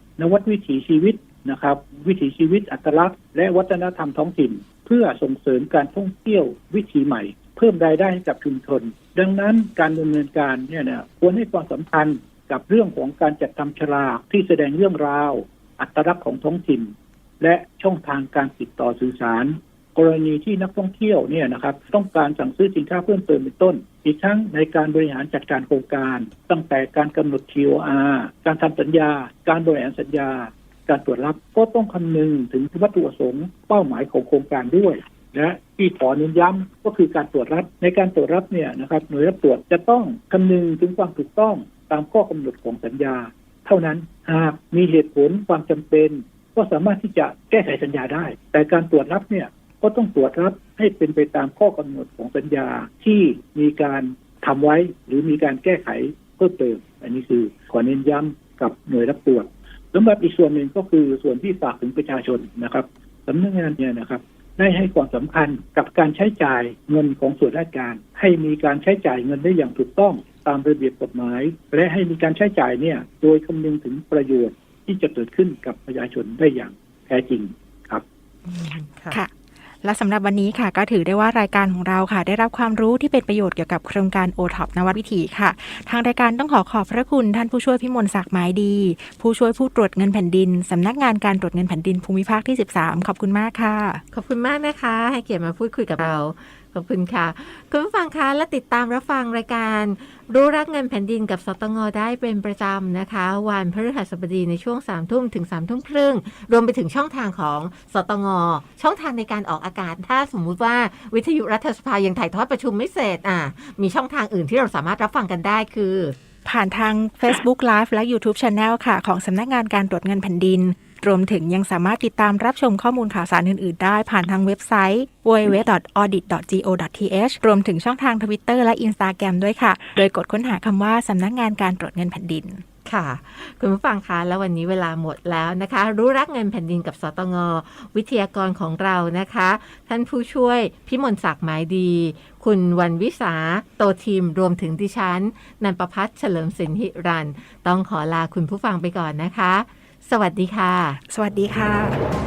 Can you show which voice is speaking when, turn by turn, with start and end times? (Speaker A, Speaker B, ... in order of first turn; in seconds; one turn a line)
Speaker A: 0.2-78.0
Speaker B: 78.5-79.2
Speaker C: 79.8-94.0
Speaker B: 94.1-116.2
Speaker C: 116.5-132.6
Speaker B: 132.8-151.0
Speaker C: 151.1-152.0